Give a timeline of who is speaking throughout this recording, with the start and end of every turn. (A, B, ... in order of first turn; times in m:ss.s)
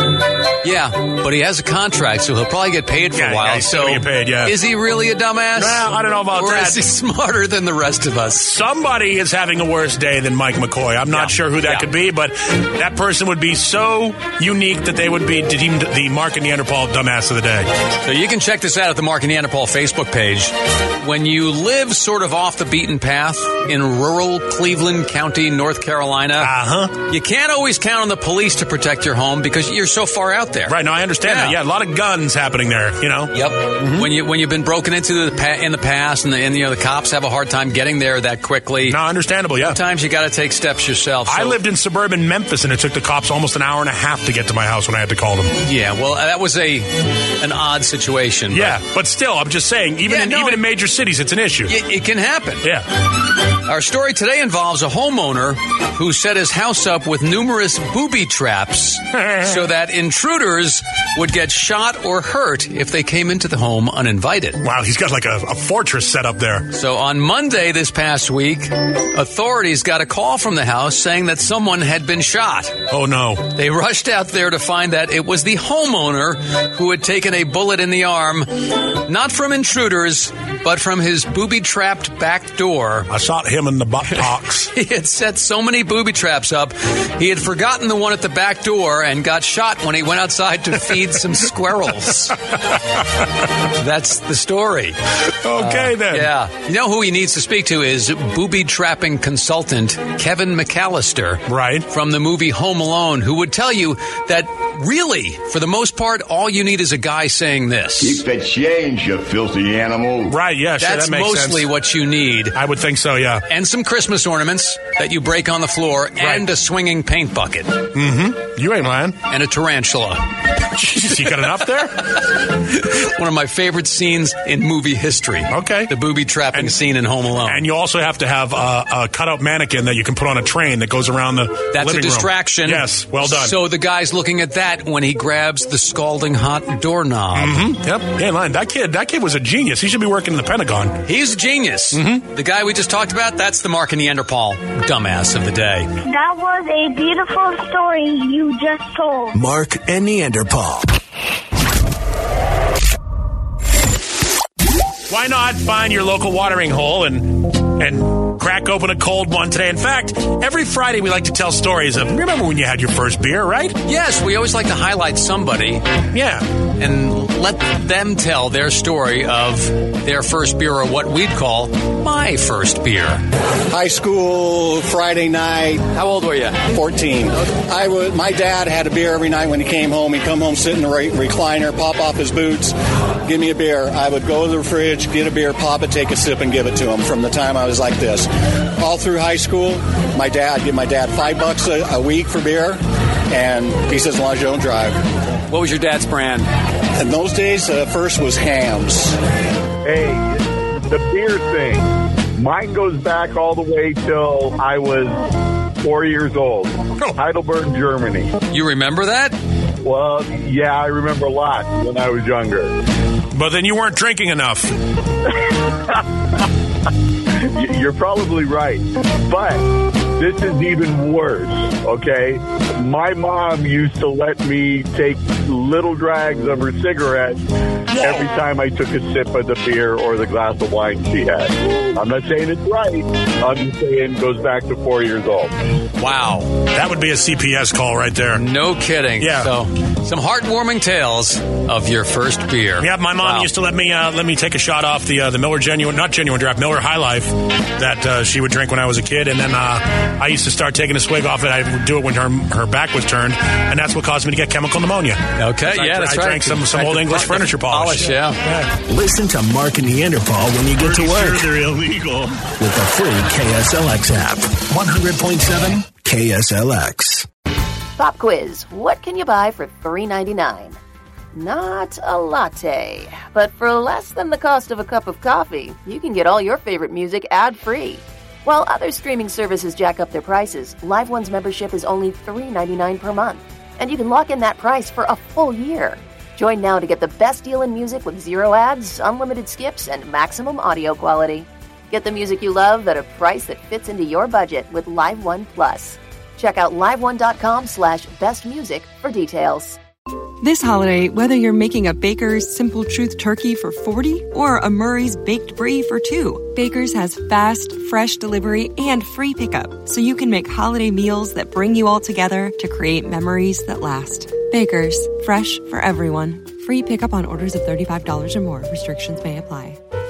0:00.6-0:08.5 A
0:03.1-0:04.6 B
0:05.5-0:06.8 B
0:08.4-0:17.7 B
0:11.1-0:11.9 A
0:18.0-0:26.5 A
0:26.4-0:27.0 B
0:27.0-0:31.6 A
0:30.7-0:34.1 B
0:33.3-0:39.0 A
0:38.9-0:39.8 B
0:39.6-0:41.6 A
0:41.3-0:45.6 B
0:45.6-0:48.8 A
0:48.5-0:51.8 B
0:50.1-0:50.6 A
0:51.7-0:52.7 A
0:53.6-1:04.6 A
0:59.1-0:59.7 B
1:04.6-1:06.7 B
1:06.7-1:12.8 A
1:12.9-1:13.5 B
1:13.5-1:23.1 A
1:23.1-1:24.7 B
1:24.1-1:32.4 A
1:33.6-1:35.0 A
1:35.4-1:36.3 B
1:35.6-1:48.2 A
1:41.5-1:41.9 B
1:48.0-1:50.4 C
1:50.3-1:51.7 B
1:50.8-1:52.6 A
1:52.6-1:53.4 B
1:53.5-1:57.8 A
1:56.2-1:56.5 B
1:57.9-1:59.2 B
1:59.3-2:00.3 A
2:00.7-2:02.1 B
2:02.1-2:07.6 A
2:05.5-2:05.9 B
2:06.5-2:06.8 B
2:07.4-2:13.5 B
2:11.7-2:17.6 A
2:17.3-2:21.0 B
2:21.0-2:25.9 A
2:21.9-2:22.3 B
2:26.1-2:29.4 D
2:29.3-2:30.9 E
2:35.1-2:43.8 B
2:43.8-2:45.8 A
2:46.1-2:46.4 B
2:46.8-2:53.2 A
2:53.7-2:55.8 F
2:55.9-2:56.6 A
2:56.7-3:02.7 F
3:03.2-3:12.8 F
3:13.3-3:15.0 F
3:15.5-3:16.5 A
3:17.0-3:19.2 F
3:19.8-3:25.2 G
3:25.8-3:28.3 G
3:28.5-3:29.4 A
3:29.8-3:32.8 G
3:33.3-3:34.7 B
3:37.5-3:55.5 G
3:48.0-3:48.3 B
3:56.0-3:56.6 A
3:56.7-3:58.4 B
3:58.3-4:03.5 A
3:59.2-3:59.5 B
4:02.8-4:18.7 B
4:15.4-4:18.4 A
4:18.9-4:21.8 E
4:20.9-4:22.2 B
4:22.4-4:27.3 E
4:28.0-4:30.8 H
4:31.4-4:59.8 H
5:00.4-5:19.8 I